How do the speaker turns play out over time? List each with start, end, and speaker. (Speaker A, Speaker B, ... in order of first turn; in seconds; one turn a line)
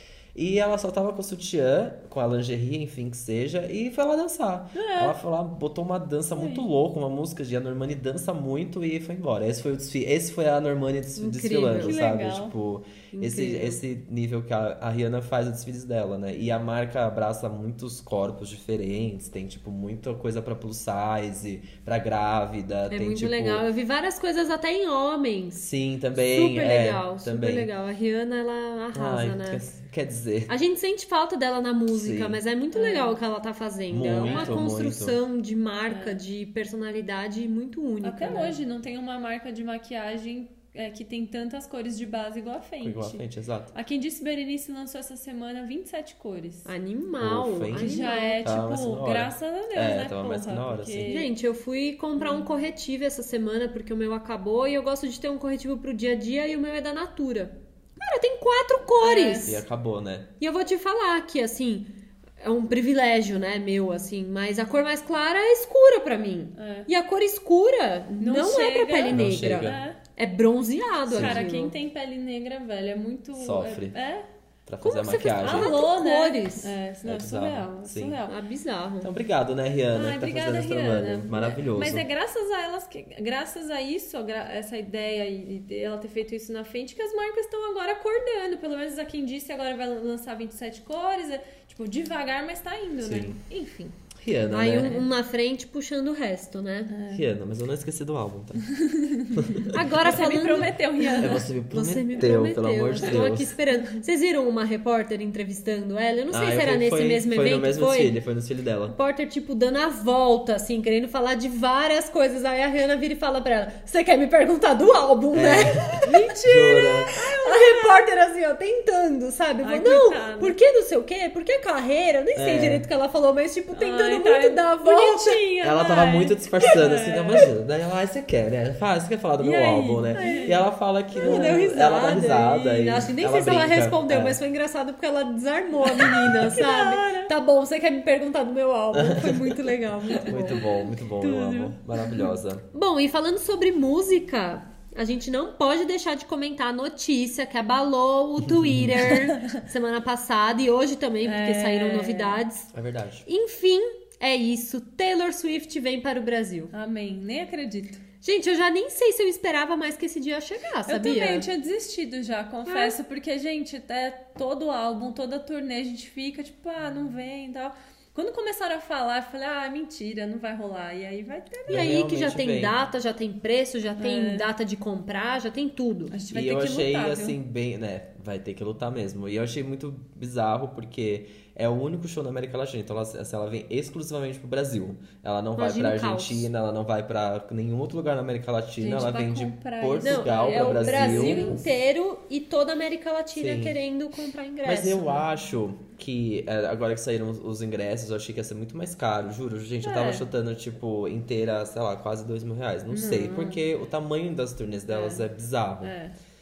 Speaker A: 0.3-23.6
Speaker B: 4.8-5.2
Speaker B: 6.3-6.7
Speaker C: 11.2-12.0
Speaker B: 11.8-12.5
Speaker C: 13.1-13.8
Speaker C: 22.9-25.6
Speaker A: 25.6-27.7
Speaker C: 26.2-29.6
Speaker A: 28.9-30.5
Speaker C: 30.5-38.6
Speaker A: 31.9-32.4
Speaker B: 32.7-33.2
Speaker A: 33.9-35.2
Speaker B: 34.2-34.7
Speaker B: 35.9-36.2
Speaker B: 38.0-46.7
Speaker A: 42.8-43.7
Speaker C: 46.6-48.4
Speaker A: 47.2-51.1
Speaker B: 47.8-51.3
Speaker C: 51.0-59.6
Speaker B: 52.1-52.5
Speaker B: 59.0-59.6
Speaker A: 59.5-60.3
Speaker C: 60.4-71.8
Speaker B: 66.6-66.9
Speaker B: 68.2-70.0
Speaker A: 69.1-69.8
Speaker A: 71.1-71.4
Speaker B: 71.1-74.2
Speaker A: 73.3-74.0
Speaker A: 74.7-75.8
Speaker C: 74.8-76.7
Speaker B: 75.4-78.3
Speaker A: 77.0-78.2
Speaker C: 78.3-79.1
Speaker A: 79.0-82.1
Speaker B: 79.9-94.0
Speaker A: 93.0-93.4
Speaker A: 94.2-95.1
Speaker C: 94.5-96.9
Speaker B: 96.9-97.3
Speaker A: 97.1-98.7
Speaker B: 98.6-101.5
Speaker A: 99.3-99.8
Speaker C: 99.7-108.2
Speaker A: 101.2-103.6
Speaker A: 106.3-109.0
Speaker C: 108.9-125.4
Speaker A: 115.3-117.1
Speaker B: 116.1-116.6
Speaker B: 117.1-118.1
Speaker B: 119.6-120.6
Speaker A: 122.4-122.9
Speaker B: 123.7-127.5
Speaker A: 125.6-134.4
Speaker B: 129.4-130.6
Speaker C: 130.1-130.6
Speaker B: 131.2-131.6
Speaker C: 131.2-140.6
Speaker B: 135.9-137.3
Speaker A: 138.9-139.7
Speaker B: 140.1-142.3
Speaker A: 140.2-142.7
Speaker C: 142.7-152.7
Speaker A: 148.4-149.1
Speaker B: 149.1-149.5
Speaker B: 151.2-152.4
Speaker A: 152.7-153.3
Speaker C: 153.3-156.7
Speaker B: 156.7-158.0
Speaker C: 158.2-161.5
Speaker B: 160.9-171.9
Speaker C: 162.7-163.0
Speaker A: 171.7-172.8
Speaker C: 171.7-176.2
Speaker B: 174.0-174.5
Speaker B: 176.1-177.4
Speaker A: 176.3-191.5
Speaker C: 185.6-186.5
Speaker B: 188.8-191.7
Speaker C: 190.0-195.2
Speaker A: 193.3-193.8
Speaker A: 194.7-205.9
Speaker B: 199.8-200.2
Speaker B: 202.9-203.6
Speaker B: 204.9-205.2
Speaker B: 205.8-206.2